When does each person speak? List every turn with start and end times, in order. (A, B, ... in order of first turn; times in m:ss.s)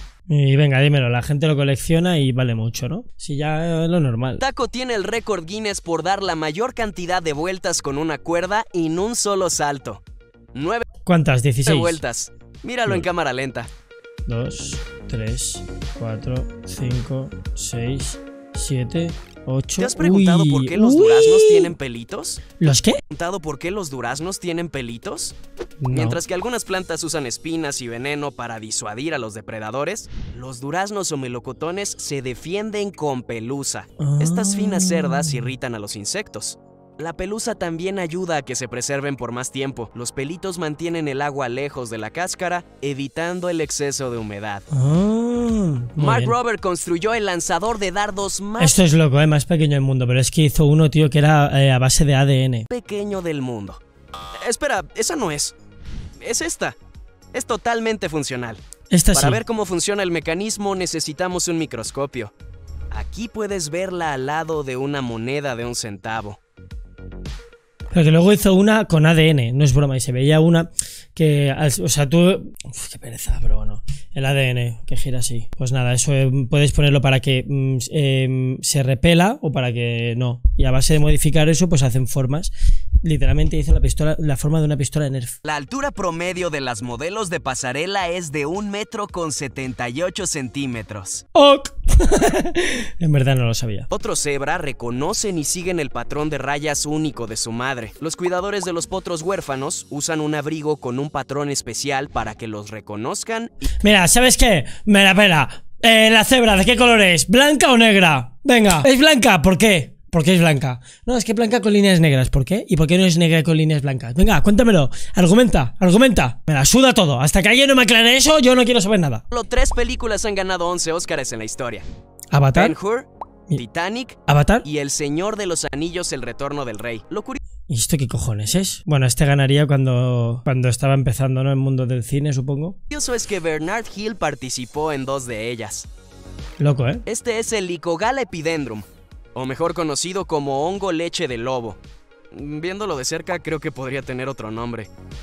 0:00.3-0:04.4 A
0:04.4-0:10.0 B
0:10.5-0:10.8 B
0:11.0-0:12.0 A
0:11.7-0:13.7 B
0:14.3-0:21.7 A
0:19.8-0:22.4 B
0:22.6-0:23.0 A
0:23.1-0:25.4 B
0:25.8-0:26.2 A
0:25.9-0:44.6 B
0:34.0-0:35.5 A
0:44.7-0:46.4 A
0:46.0-0:48.8 B
0:48.6-0:52.7 A
0:52.7-0:55.6 B
0:56.2-0:56.8 B
0:57.3-0:58.6 B
0:58.9-0:59.4 A
0:59.1-1:02.3 B
1:02.9-1:06.4 B
1:07.9-1:25.4 A
1:25.4-1:31.2 B
1:31.4-1:33.9 A
1:33.9-1:43.6 B
1:43.8-1:59.2 A
1:59.3-2:01.9 B
2:02.3-2:02.8 A
2:02.5-2:07.4 B
2:04.3-2:04.7 A
2:07.7-2:12.8 A
2:12.9-2:15.9 B
2:16.6-2:17.0 A
2:17.0-2:21.8 B
2:22.3-2:24.9 B